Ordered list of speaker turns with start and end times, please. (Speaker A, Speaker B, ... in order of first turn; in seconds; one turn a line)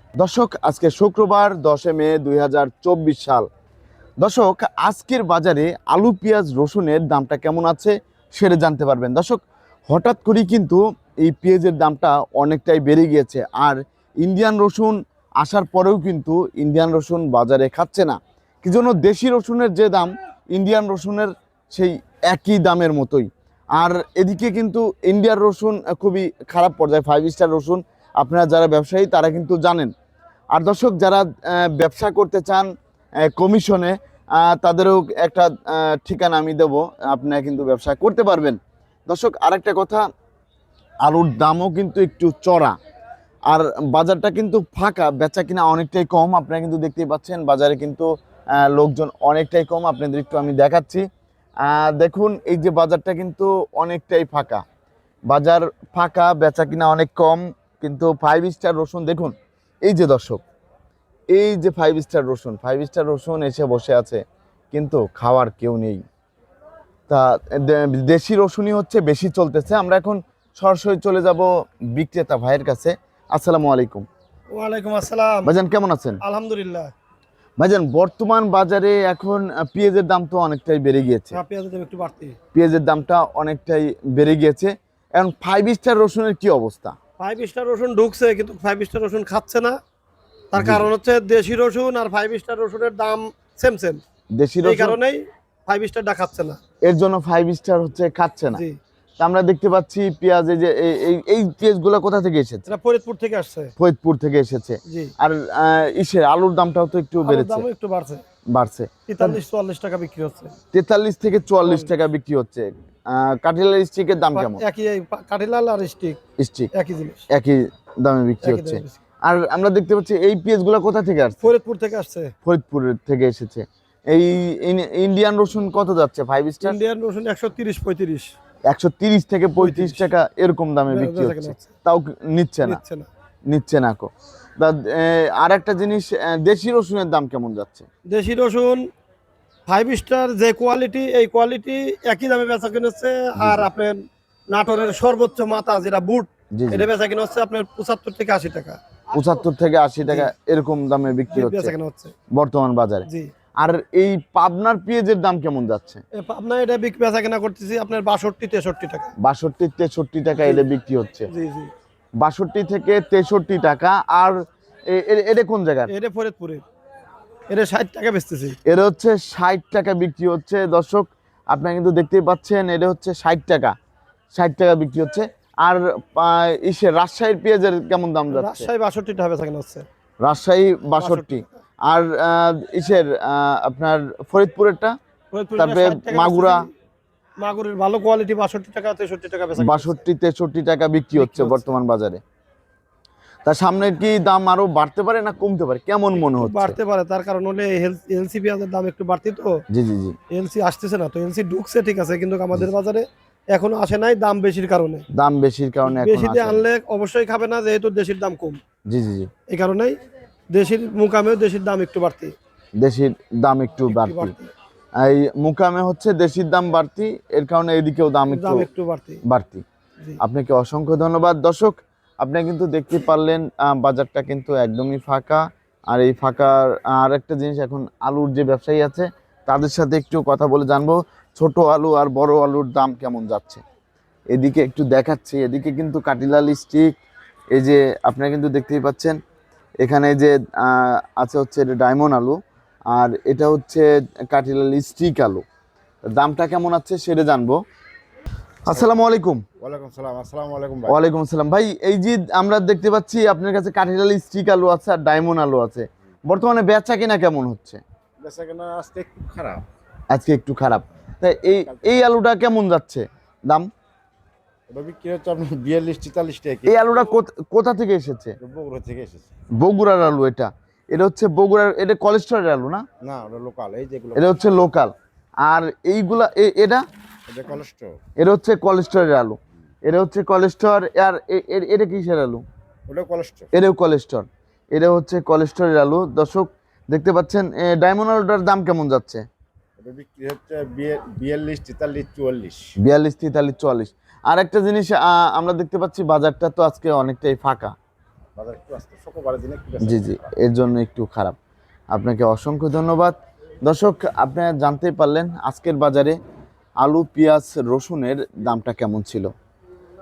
Speaker A: 0.2-3.5
Speaker A: 4.2-29.9
Speaker A: 30.5-32.7
Speaker A: 33.2-40.0
Speaker A: 41.0-42.7
Speaker A: 43.5-51.0
Speaker A: 51.6-54.6
Speaker A: 55.3-60.4
Speaker A: 61.3-64.2
Speaker A: 64.7-66.0
Speaker A: 67.1-74.0
Speaker B: 74.5-75.5
Speaker A: 75.4-76.2
Speaker B: 76.2-76.9
Speaker A: 77.6-81.4
Speaker B: 81.3-82.3
Speaker A: 82.5-86.9
Speaker B: 87.2-89.8
Speaker B: 90.5-94.0
Speaker A: 90.5-90.9
Speaker A: 94.4-95.0
Speaker B: 94.6-96.6
Speaker A: 96.8-98.6
Speaker A: 99.2-102.7
Speaker B: 102.7-103.7
Speaker A: 103.8-107.6
Speaker B: 104.9-105.1
Speaker B: 107.2-108.2
Speaker A: 108.5-109.4
Speaker B: 109.1-110.5
Speaker A: 110.7-114.6
Speaker B: 111.6-111.9
Speaker B: 114.3-116.2
Speaker A: 116.4-116.7
Speaker B: 116.7-117.2
Speaker A: 117.3-121.5
Speaker B: 118.4-119.0
Speaker B: 121.4-122.3
Speaker A: 122.4-126.8
Speaker B: 126.6-128.3
Speaker A: 128.7-132.8
Speaker B: 129.6-130.1
Speaker B: 130.9-131.7
Speaker B: 132.6-133.1
Speaker A: 133.5-137.9
Speaker B: 138.1-138.8
Speaker B: 139.7-148.8
Speaker A: 143.3-143.7
Speaker A: 146.5-146.9
Speaker A: 149.1-151.7
Speaker B: 151.3-152.1
Speaker A: 152.3-153.1
Speaker A: 153.6-156.0
Speaker B: 156.1-159.1
Speaker A: 159.2-161.3
Speaker B: 160.4-160.7
Speaker B: 161.3-161.7
Speaker A: 162.2-164.4
Speaker A: 164.9-165.9
Speaker B: 165.9-166.6
Speaker B: 167.5-168.6
Speaker A: 168.6-173.7
Speaker A: 174.3-178.7
Speaker B: 178.3-179.8
Speaker A: 180.2-184.9
Speaker B: 181.0-181.4
Speaker B: 185.3-186.7
Speaker A: 185.6-186.6
Speaker B: 187.4-190.0
Speaker A: 189.6-192.2
Speaker B: 191.1-191.7
Speaker A: 193.4-196.8
Speaker B: 196.2-199.5
Speaker A: 199.7-200.2
Speaker B: 200.3-205.0
Speaker A: 205.1-206.7
Speaker B: 205.8-208.6
Speaker A: 208.9-209.3
Speaker B: 209.5-210.0
Speaker B: 210.5-212.3
Speaker A: 212.8-214.3
Speaker B: 213.8-214.5
Speaker A: 215.0-218.7
Speaker B: 218.3-219.2
Speaker A: 219.2-219.6
Speaker A: 220.2-233.6
Speaker A: 234.3-236.9
Speaker A: 237.5-239.2
Speaker A: 239.8-242.4
Speaker A: 242.9-245.4
Speaker A: 246.1-247.6
Speaker A: 248.7-249.4
Speaker C: 249.6-251.0
Speaker A: 250.9-257.8
Speaker C: 258.2-259.6
Speaker A: 260.1-263.7
Speaker C: 261.6-262.1
Speaker C: 264.7-266.8
Speaker A: 266.7-268.4
Speaker C: 268.4-269.3
Speaker A: 269.6-272.8
Speaker C: 273.0-274.3
Speaker A: 274.1-274.9
Speaker A: 275.4-276.8
Speaker C: 277.3-278.0
Speaker A: 278.2-282.4
Speaker C: 282.9-283.5
Speaker A: 283.5-289.2
Speaker C: 289.8-292.6
Speaker A: 292.8-297.7
Speaker C: 298.4-300.3
Speaker A: 299.8-301.4
Speaker A: 301.9-306.1
Speaker A: 306.8-309.3